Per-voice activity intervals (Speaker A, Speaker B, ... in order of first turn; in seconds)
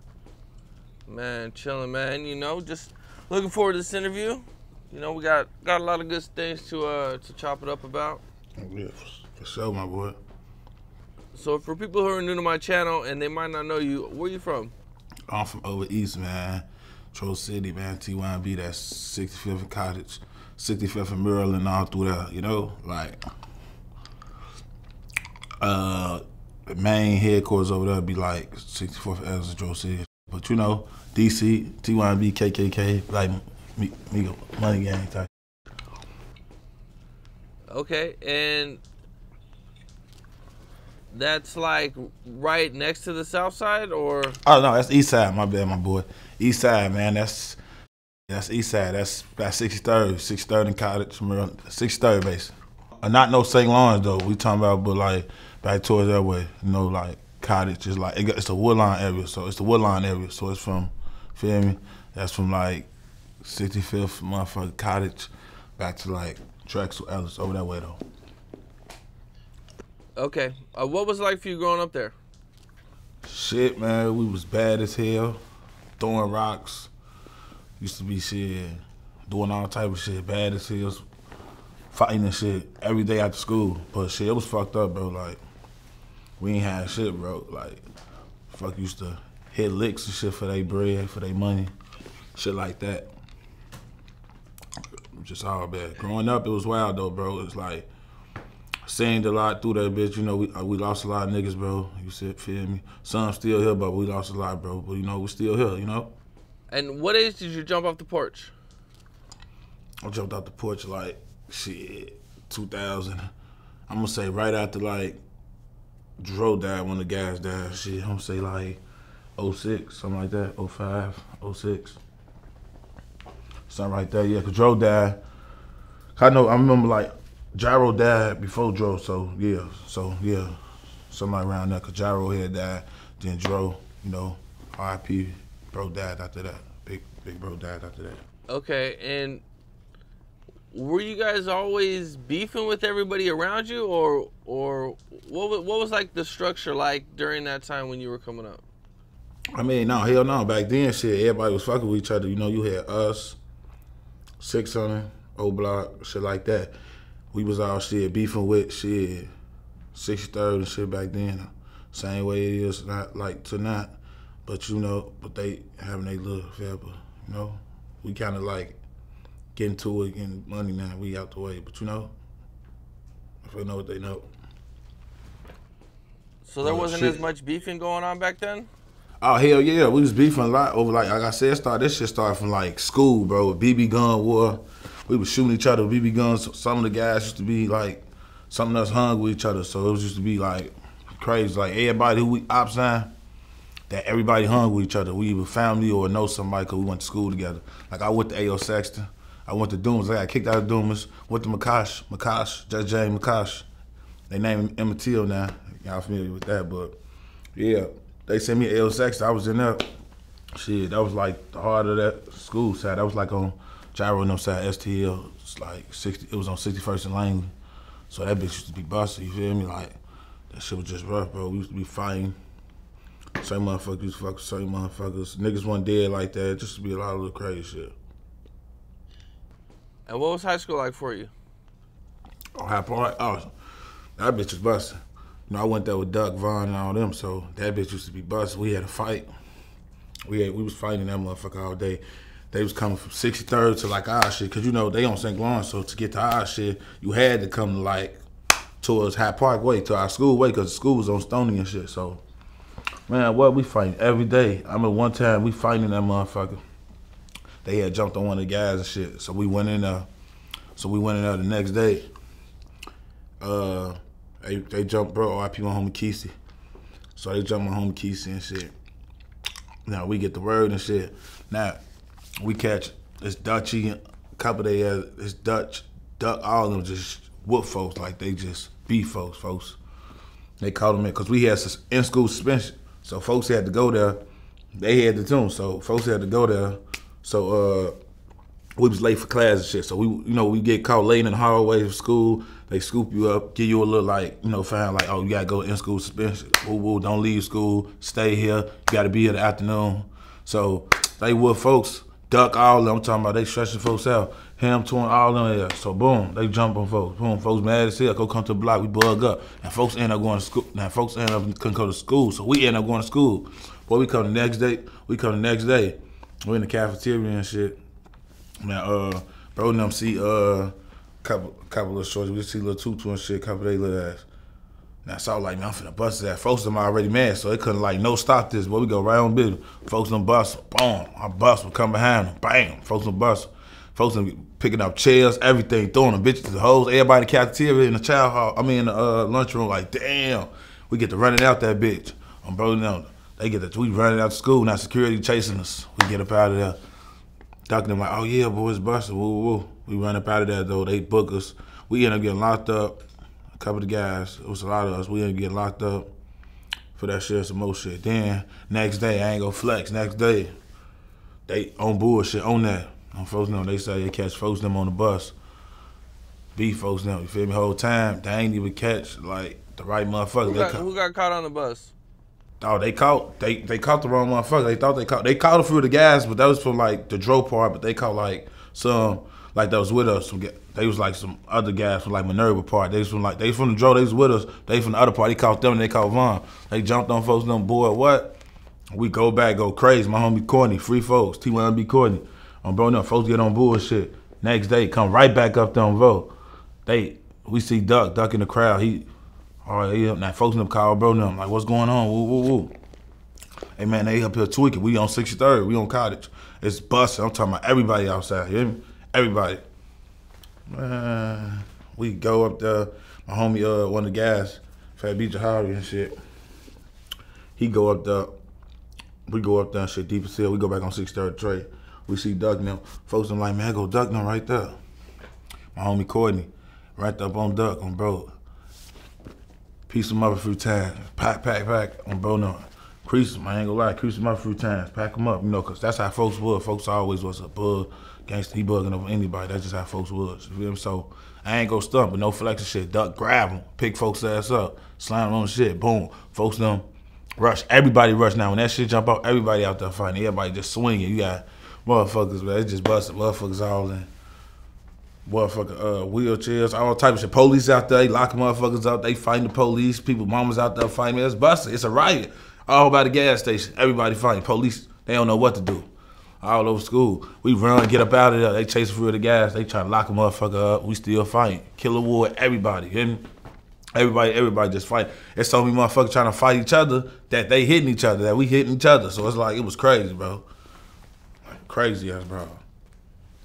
Speaker A: 1.1-8.2, 11.3-14.7, 37.7-38.8, 41.1-44.4, 70.2-72.2, 106.7-108.5, 138.5-139.4, 140.7-148.6, 176.4-178.7, 230.1-231.3, 370.4-371.9
Speaker B: 8.6-10.2, 15.3-23.2, 25.6-35.3, 44.4-47.6, 48.3-62.9, 63.4-68.0, 73.2-75.4, 76.0-76.9, 77.8-81.0, 81.9-85.4, 86.4-87.8, 88.5-91.7, 92.3-93.1, 95.2-97.9, 98.9-106.1, 110.0-113.2, 113.9-115.2, 116.2-118.8, 119.4-122.0, 123.7-125.2, 126.2-130.6, 131.1-138.2, 149.6-153.4, 154.4-156.7, 157.3-159.3, 159.9-168.8, 169.6-172.1, 173.4-174.3, 176.6-177.2, 179.2-193.1, 193.9-203.7, 204.3-207.0, 207.6-209.8, 210.6-217.5, 218.1-220.0, 220.5-222.3, 223.4-227.9, 232.6-233.5, 234.2-235.0, 235.5-239.3, 240.3-248.2, 248.8-252.2, 253.1-256.6, 257.6-260.1, 260.8-262.1, 263.4-266.3, 267.2-268.7, 269.9-271.8, 272.4-279.8, 280.6-284.2, 284.8-287.9, 288.8-317.8, 318.6-324.2, 325.1-346.8, 347.7-353.0, 353.6-356.1, 356.9-360.5, 361.5-365.3, 366.6-370.9, 372.6-388.4, 388.9-396.3, 396.9-399.1, 399.6-402.7, 403.8-409.6, 410.7-416.1, 417.6-418.3, 419.3-424.8, 425.8-428.3, 429.9-446.8, 447.4-454.1, 455.3-465.9, 466.4-473.2, 473.9-480.5, 481.5-482.6